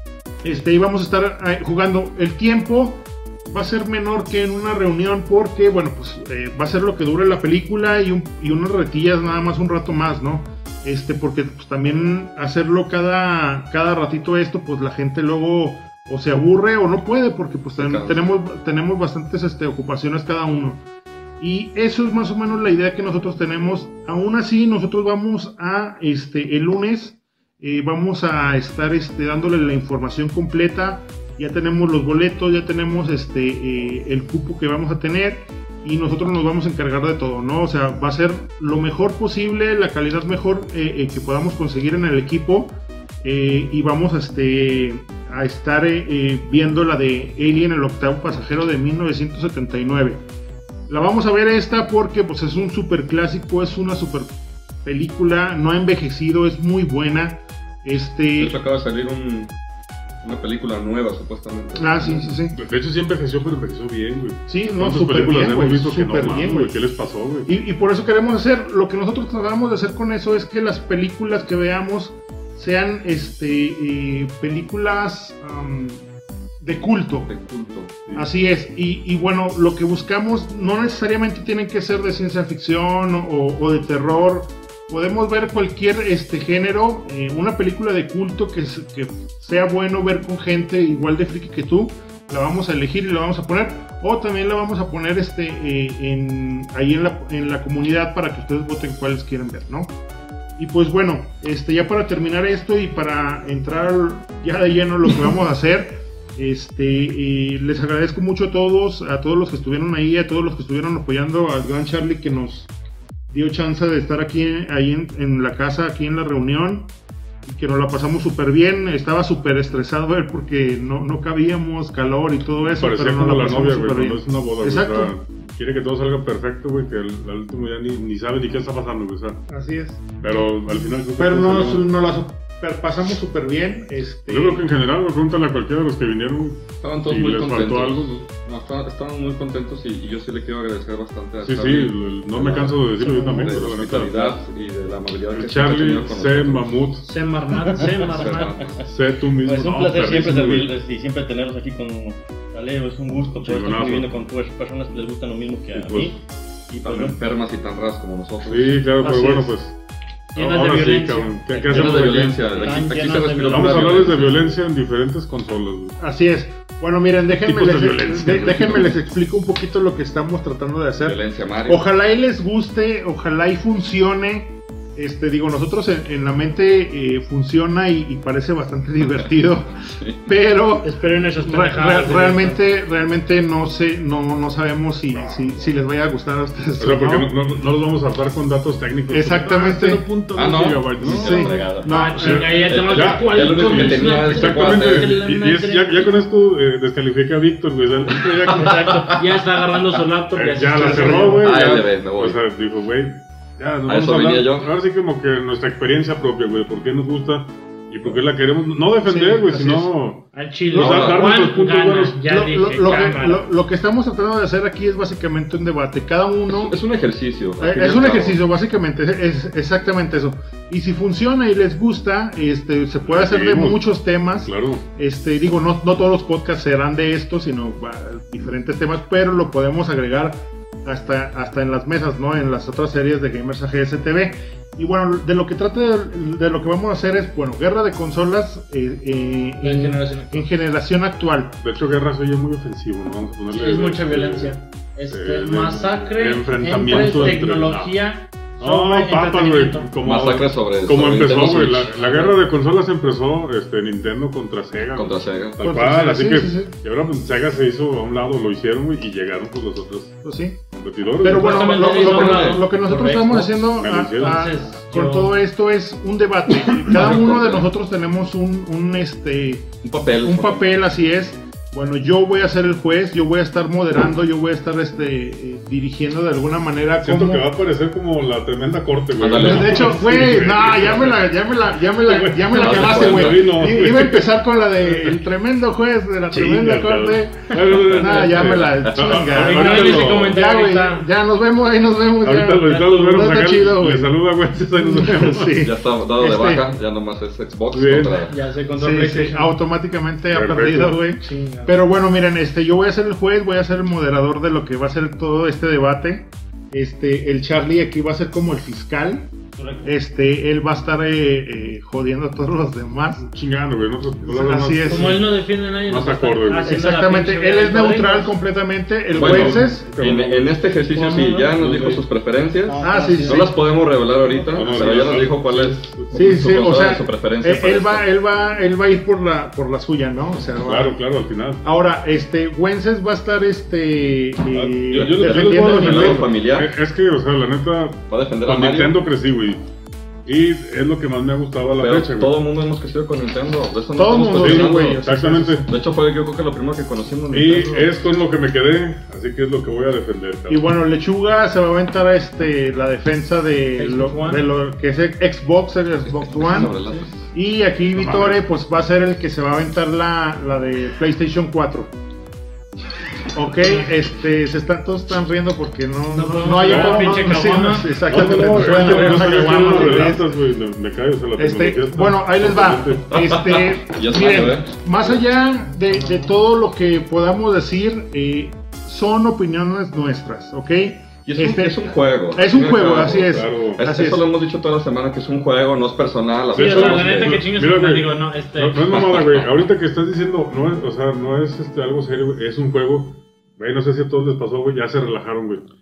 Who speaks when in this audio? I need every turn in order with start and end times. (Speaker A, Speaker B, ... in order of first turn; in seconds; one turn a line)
Speaker A: 0.4-20.8
Speaker B: 17.8-18.3
Speaker A: 21.4-50.3
Speaker A: 50.9-58.6
Speaker B: 58.4-59.5
Speaker B: 60.2-62.3
Speaker A: 61.8-62.6
Speaker C: 62.5-67.5
Speaker A: 64.5-66.8
Speaker A: 67.5-76.1
Speaker A: 76.6-77.3
Speaker B: 77.3-78.0
Speaker A: 78.1-99.9
Speaker A: 100.6-112.7
Speaker A: 113.3-116.9
Speaker A: 117.5-125.1
Speaker C: 122.8-129.4
Speaker A: 129.5-130.1
Speaker C: 130.2-131.9
Speaker A: 131.2-134.7
Speaker C: 134.3-138.2
Speaker B: 136.8-146.7
Speaker C: 141.4-144.4
Speaker C: 145.3-147.1
Speaker D: 147.0-148.8
Speaker E: 147.8-148.1
Speaker B: 148.0-148.8
Speaker C: 148.8-150.7
Speaker E: 149.4-156.2
Speaker C: 153.4-154.1
Speaker C: 155.7-156.2
Speaker E: 156.7-157.2
Speaker B: 156.7-158.8
Speaker C: 158.4-159.8
Speaker D: 159.0-159.5
Speaker D: 160.3-164.4
Speaker C: 160.4-162.7
Speaker B: 161.7-164.5
Speaker C: 163.4-166.0
Speaker A: 166.0-187.3
Speaker C: 167.4-168.9
Speaker B: 171.0-171.8
Speaker D: 180.8-182.6
Speaker C: 186.8-191.6
Speaker A: 189.1-190.1
Speaker B: 190.3-195.2
Speaker A: 191.0-192.6
Speaker D: 191.8-196.1
Speaker C: 192.2-199.1
Speaker B: 198.5-199.3
Speaker D: 198.5-201.5
Speaker C: 200.3-212.2
Speaker A: 200.8-201.4
Speaker B: 201.4-202.4
Speaker B: 203.9-204.7
Speaker A: 209.1-209.9
Speaker D: 210.3-213.5
Speaker B: 210.7-211.3
Speaker A: 212.3-216.8
Speaker B: 216.5-218.4
Speaker A: 217.6-241.6
Speaker C: 223.0-224.8
Speaker D: 239.6-240.5
Speaker C: 241.6-244.5
Speaker D: 243.5-249.9
Speaker C: 245.1-247.9
Speaker C: 248.6-261.9
Speaker B: 250.0-252.4
Speaker B: 254.9-255.6
Speaker A: 255.6-256.7
Speaker A: 260.2-260.6
Speaker A: 261.2-269.7
Speaker D: 261.2-265.4
Speaker B: 261.9-262.6
Speaker C: 263.7-264.4
Speaker B: 266.7-267.7
Speaker B: 269.8-270.7
Speaker A: 270.2-277.5
Speaker C: 277.0-285.2
Speaker B: 279.2-280.0
Speaker A: 279.3-294.2
Speaker B: 282.6-283.5
Speaker C: 286.3-290.4
Speaker D: 289.3-291.1
Speaker C: 292.2-295.6
Speaker D: 292.7-293.2
Speaker A: 294.8-296.7
Speaker B: 295.6-298.4
Speaker C: 297.7-298.2
Speaker D: 298.3-299.6
Speaker A: 298.8-309.3
Speaker C: 300.3-301.0
Speaker D: 301.2-301.8
Speaker E: 309.6-309.9
Speaker A: 309.8-313.3
Speaker C: 313.2-316.7
Speaker A: 314.2-315.2
Speaker D: 314.9-318.4
Speaker A: 316.6-319.9
Speaker C: 319.1-320.6
Speaker B: 319.1-328.1
Speaker D: 320.9-321.6
Speaker C: 321.6-322.0
Speaker D: 322.6-323.5
Speaker A: 322.8-323.5
Speaker C: 324.5-326.4
Speaker A: 326.1-331.0
Speaker C: 330.6-331.6
Speaker A: 331.6-336.3
Speaker C: 334.5-339.6
Speaker B: 334.9-336.7
Speaker B: 338.1-339.0
Speaker C: 340.3-342.4
Speaker B: 341.8-345.0
Speaker A: 343.9-345.7
Speaker C: 344.4-345.7
Speaker B: 345.7-347.9
Speaker C: 347.3-350.7
Speaker A: 350.5-356.8
Speaker D: 353.8-354.5
Speaker B: 356.1-357.3
Speaker D: 356.6-357.1
Speaker A: 357.3-361.9
Speaker C: 357.9-358.4
Speaker A: 363.3-370.3
Speaker D: 366.1-370.1
Speaker C: 366.6-367.3
Speaker C: 368.1-373.2
Speaker A: 371.4-384.3
Speaker B: 373.1-374.9
Speaker D: 375.9-376.3
Speaker B: 381.3-387.4
Speaker C: 383.3-383.8
Speaker D: 386.5-389.0
Speaker C: 386.5-395.6
Speaker B: 388.9-389.5